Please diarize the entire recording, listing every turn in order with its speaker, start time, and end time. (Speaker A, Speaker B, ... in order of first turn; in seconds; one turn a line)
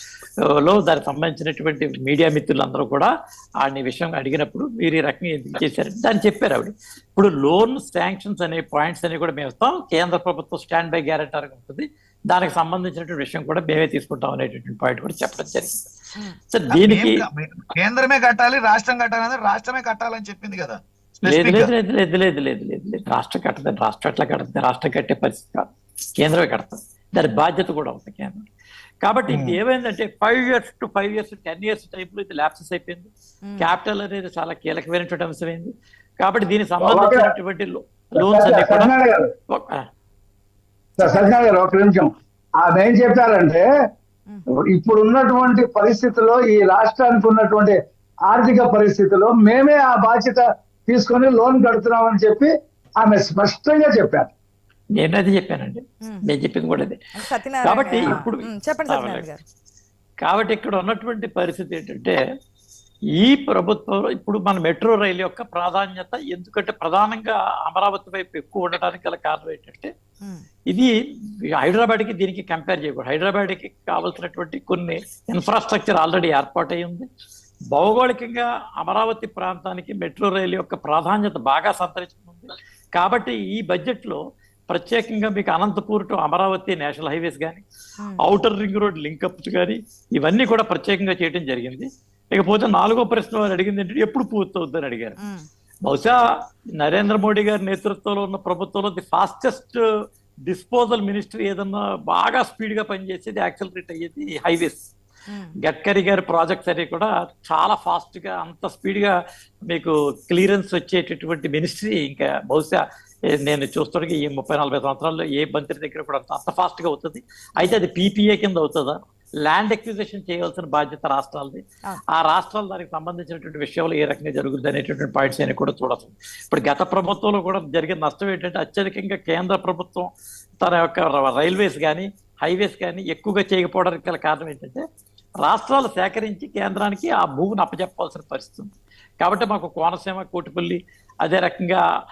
Speaker A: 0.5-15.9
Speaker A: 16.5-17.2
Speaker B: 16.7-21.7
Speaker A: 21.2-28.4
Speaker A: 29.0-38.9
Speaker B: 29.3-29.6
Speaker C: 36.8-37.3
Speaker C: 38.2-39.3
Speaker A: 39.5-39.9
Speaker D: 41.0-41.2
Speaker C: 41.0-43.7
Speaker C: 44.5-54.3
Speaker A: 55.0-57.0
Speaker D: 57.2-59.4
Speaker A: 57.6-59.3
Speaker A: 60.2-62.2
Speaker A: 63.2-69.9
Speaker A: 70.7-77.1
Speaker A: 77.7-87.6
Speaker A: 88.2-95.2
Speaker D: 95.2-95.5
Speaker A: 95.9-96.2
Speaker A: 96.8-99.8
Speaker A: 100.5-104.8
Speaker D: 105.3-105.6
Speaker A: 105.6-109.2
Speaker A: 109.7-130.1
Speaker A: 130.6-134.8
Speaker A: 135.4-141.8